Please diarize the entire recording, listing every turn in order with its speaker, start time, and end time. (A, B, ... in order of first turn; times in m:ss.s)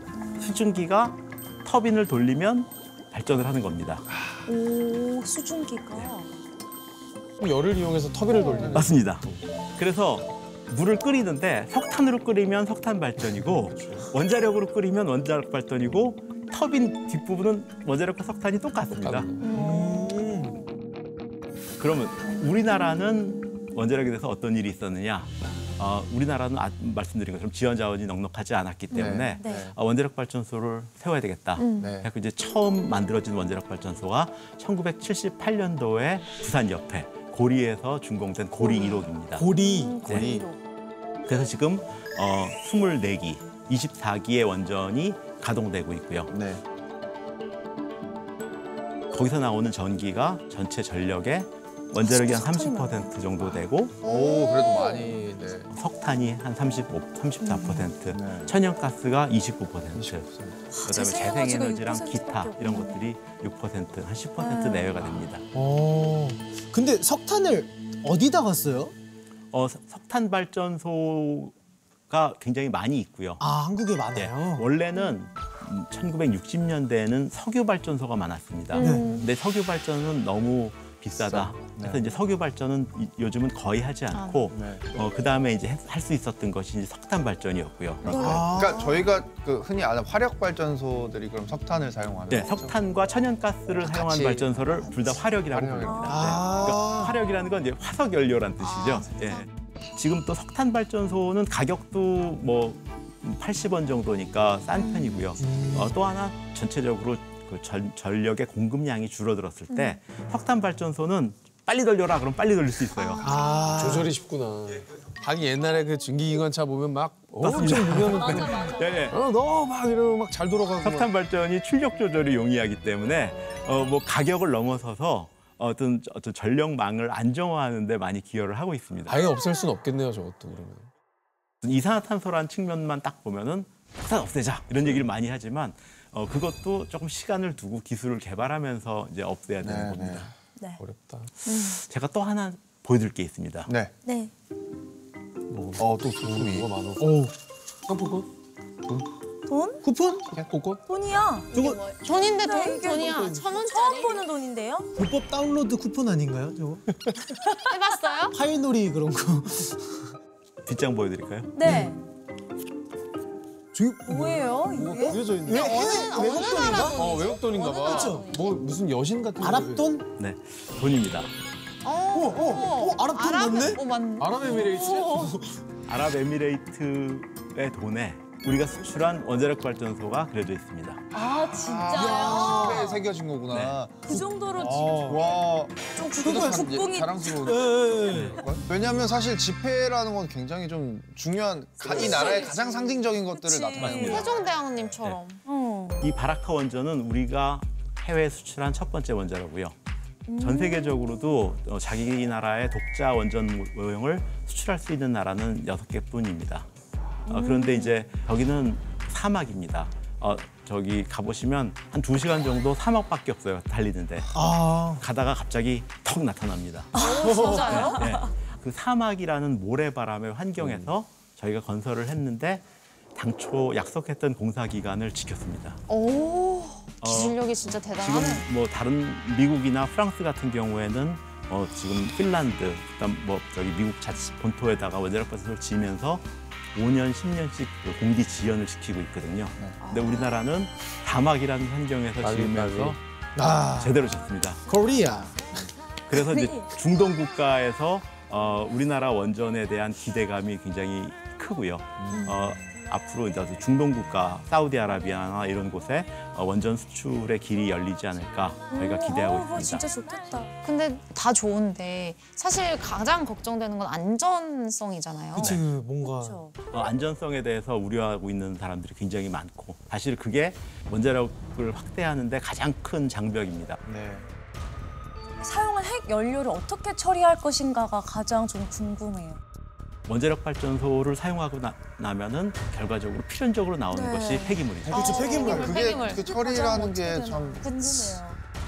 0:00.1-0:00.8 A
0:00.4-0:04.1 B
0:04.1-0:04.4 C
0:04.4-0:06.3 A
0:07.4-0:09.4 D
0:08.4-0:08.7 A
0:08.7-0:19.3 B
0:18.9-0:19.5 D
0:19.4-0:20.0 E
0:19.5-0:20.6 F
0:19.6-0:20.6 A
0:21.8-0:39.5 B
0:28.9-0:29.7 C
0:29.4-0:29.7 A
0:31.6-0:32.0 E
0:31.8-0:32.1 C
0:39.4-0:40.1 F
0:39.6-0:40.6 A
0:40.0-0:40.5 C
0:41.3-0:46.3 B
0:46.3-0:46.6 C
0:49.1-0:54.0 B
0:52.0-0:53.1 A
0:54.0-0:55.7 C
0:54.0-0:55.1 E
0:55.7-1:00.3 B
0:58.1-0:58.6 C
0:59.9-1:00.6 C
1:00.7-1:03.0 A
1:00.8-1:05.4 B
1:04.4-1:04.9 A
1:05.5-1:08.9 F
1:09.5-1:11.5 B
1:12.1-1:13.4 B
1:13.4-1:14.7 F
1:14.1-1:28.2 B
1:18.7-1:19.3 E
1:18.8-1:19.2 F
1:21.3-1:22.0 C
1:24.1-1:24.5 E
1:24.5-1:24.8 C
1:28.0-1:32.8 C
1:28.0-1:29.0 A
1:28.1-1:28.9 F
1:32.3-1:53.3 B
1:33.9-1:36.1 C
1:35.8-1:36.2 A
1:36.1-1:37.2 F
1:38.6-1:39.4 E
1:45.4-1:46.0 F
1:49.7-1:50.0 E
1:53.0-1:53.4 E
1:53.2-1:54.1 F
1:53.6-2:01.1 D
1:57.4-1:59.2 B
1:58.1-1:58.9 A
2:00.8-2:09.2 B
2:09.0-2:10.9 D
2:11.6-2:20.3 B
2:19.6-2:20.3 C
2:20.8-2:21.3 D
2:21.4-2:21.8 E
2:21.7-2:23.7 B
2:23.6-2:23.9 C
2:24.0-2:24.3 A
2:25.5-2:27.2 D
2:25.8-2:26.7 C
2:27.0-2:27.3 F
2:27.9-2:28.3 D
2:29.5-2:29.8 A
2:29.8-2:30.3 F
2:30.3-2:30.8 D
2:30.9-2:31.5 A
2:31.5-2:31.8 F
2:31.5-2:34.2 E
2:32.3-2:34.9 A
2:35.0-2:37.4 F
2:37.7-2:38.4 E
2:38.3-2:40.1 F
2:40.6-2:41.6 B
2:41.6-2:42.0 A
2:41.6-2:41.9 F
2:43.7-2:47.0 F
2:44.0-2:45.2 A
2:44.7-2:50.0 D
2:45.5-2:48.6 E
2:47.8-2:48.3 F
2:49.4-2:50.0 F
2:50.2-2:51.3 B
2:51.8-2:55.2 E
2:52.1-2:53.8 F
2:54.2-2:55.4 D
2:55.9-3:01.0 B
3:01.1-3:03.0 A
3:01.1-3:14.9 C
3:02.0-3:03.0 F
3:03.5-3:03.8 B
3:04.0-3:05.2 A
3:04.6-3:05.2 F
3:06.0-3:07.5 A
3:06.2-3:06.7 F
3:07.3-3:08.4 F
3:08.1-3:08.4 B
3:11.8-3:14.3 A
3:12.1-3:12.5 E
3:13.8-3:14.2 B
3:14.0-3:15.4 E
3:15.4-3:16.0 A
3:16.0-3:19.8 B
3:20.3-3:21.3 A
3:20.4-3:26.7 B
3:27.3-3:34.4 B
3:27.3-3:27.9 A
3:34.3-3:35.0 F
3:34.9-3:42.6 B
3:36.9-3:38.3 A
3:36.9-3:38.1 E
3:37.2-3:37.8 F
3:40.6-3:40.9 D
3:43.2-3:45.8 B
3:45.9-3:48.5 E
3:47.0-4:03.0 B
3:59.8-4:00.3 E
4:02.2-4:03.0 D
4:03.4-4:04.0 F
4:03.8-4:04.6 B
4:04.7-4:05.4 F
4:06.1-4:19.8 B
4:06.1-4:06.7 A
4:12.0-4:12.3 C
4:18.7-4:20.5 A
4:20.6-4:25.6 E
4:25.3-4:26.4 F
4:25.4-4:25.6 B
4:26.0-4:26.5 A
4:26.7-4:33.8 B
4:33.8-4:34.3 C
4:35.4-4:39.4 A
4:40.1-4:45.0 B
4:43.9-4:44.6 A
4:44.8-4:45.9 F
4:44.9-4:46.7 E
4:45.1-4:47.6 C
4:45.3-4:48.4 A
4:47.6-4:48.2 E